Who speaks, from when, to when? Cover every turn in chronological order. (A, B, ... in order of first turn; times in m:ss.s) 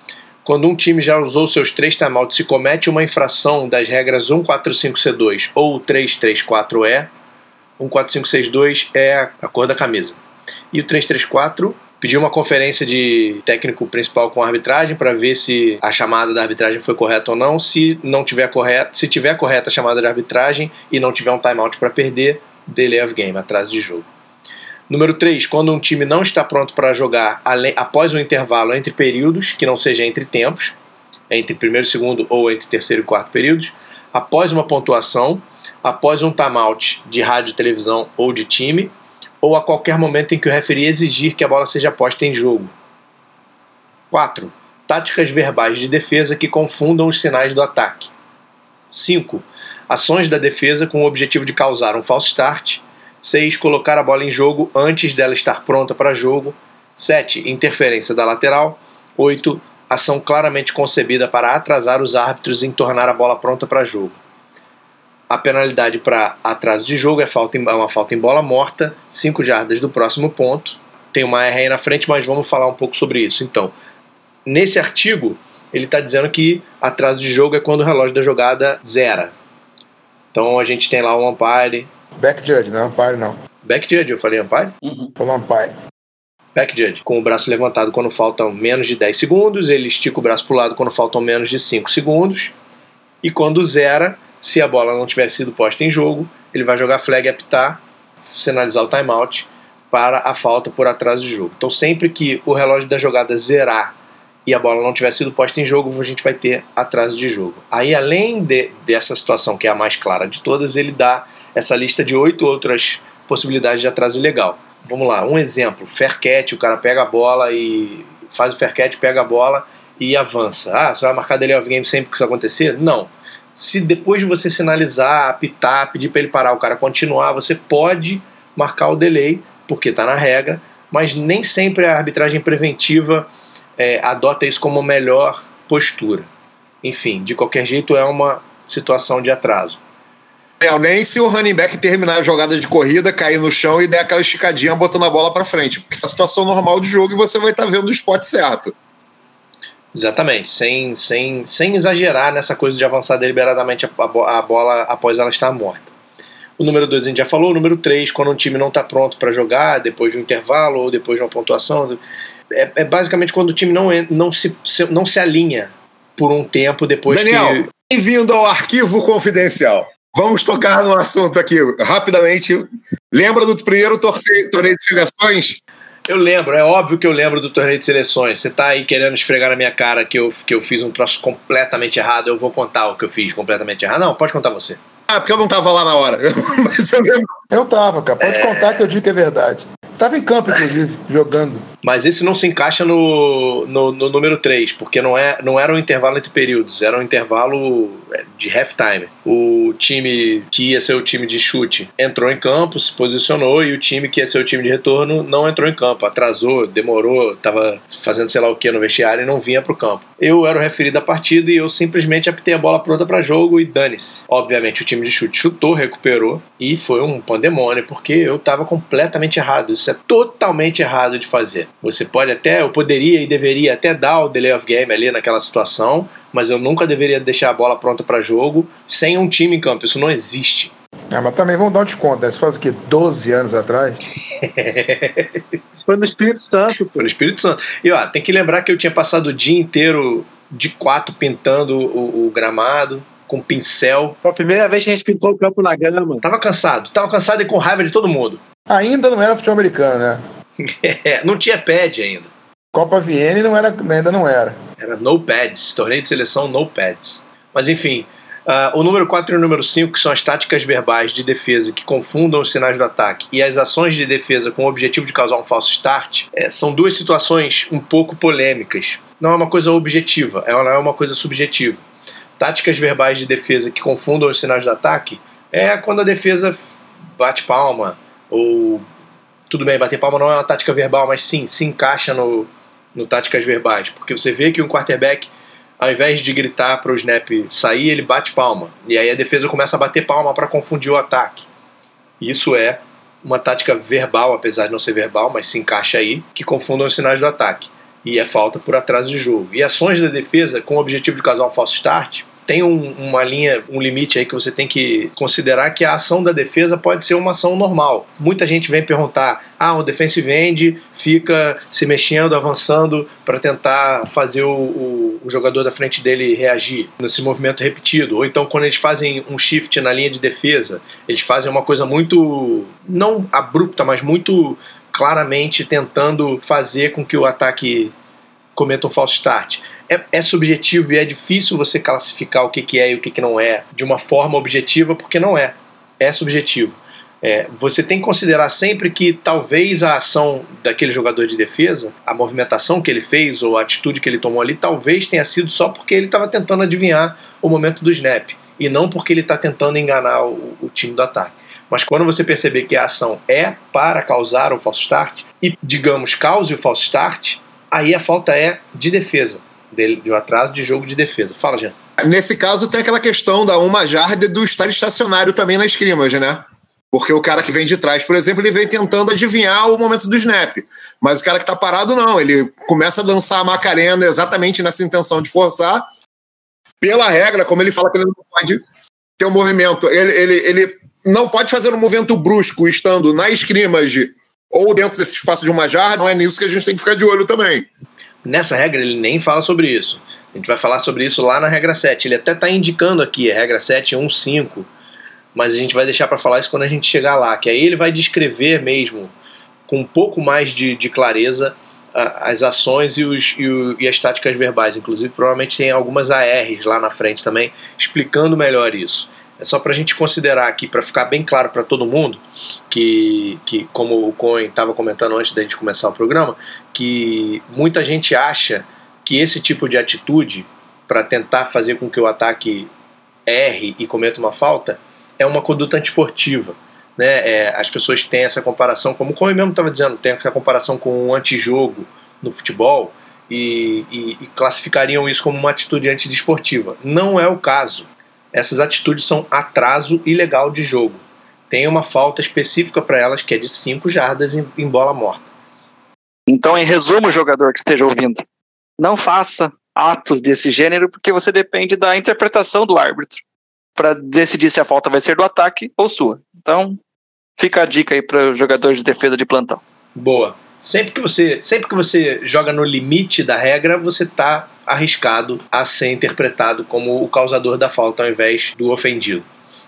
0:00.4-0:07.1 A
0:07.8-0:10.2 A
0:10.7-0:24.1 A
0:24.9-0:30.7 A
0:31.3-0:42.7 A
0:44.1-0:48.1 A
0:48.9-1:04.2 A
1:05.3-1:13.7 A
1:14.4-1:19.3 A
1:20.3-1:21.9 A
1:22.2-1:23.4 B
1:23.6-1:24.7 A
1:25.2-1:25.7 B
1:26.6-1:32.5 A
1:33.2-1:43.9 A
1:44.4-2:16.3 A
2:16.8-2:19.8 A
2:20.6-2:28.7 C
2:29.9-2:35.9 A
2:36.6-2:42.0 A
2:42.5-2:47.7 A
2:47.1-2:55.6 C
2:56.1-3:04.8 A
3:05.1-3:07.3 C
3:07.5-3:11.6 B
3:08.2-3:08.6 A
3:11.8-3:50.7 A
3:51.1-3:54.0 B
3:54.4-3:55.4 A
3:55.8-3:57.1 D
3:56.9-4:04.2 A
4:04.2-4:06.2 D
4:06.2-4:08.4 A
4:08.7-4:10.2 B
4:10.6-4:12.3 A
4:12.7-4:14.6 B
4:14.8-4:31.8 A
4:32.4-4:36.6 A
4:37.2-4:38.8 A
4:39.5-4:51.5 A
4:52.2-5:27.9 A
5:28.6-6:01.7 A
6:02.0-6:15.8 C
6:16.8-6:18.6 C
6:19.2-6:27.7 C
6:28.2-6:34.7 A
6:35.3-6:39.1 A
6:39.7-7:02.7 A
7:03.2-7:25.3 A
7:26.3-7:28.2 E
7:28.8-7:33.2 E
7:33.8-7:36.8 E
7:37.4-7:39.6 E
7:40.0-7:49.2 A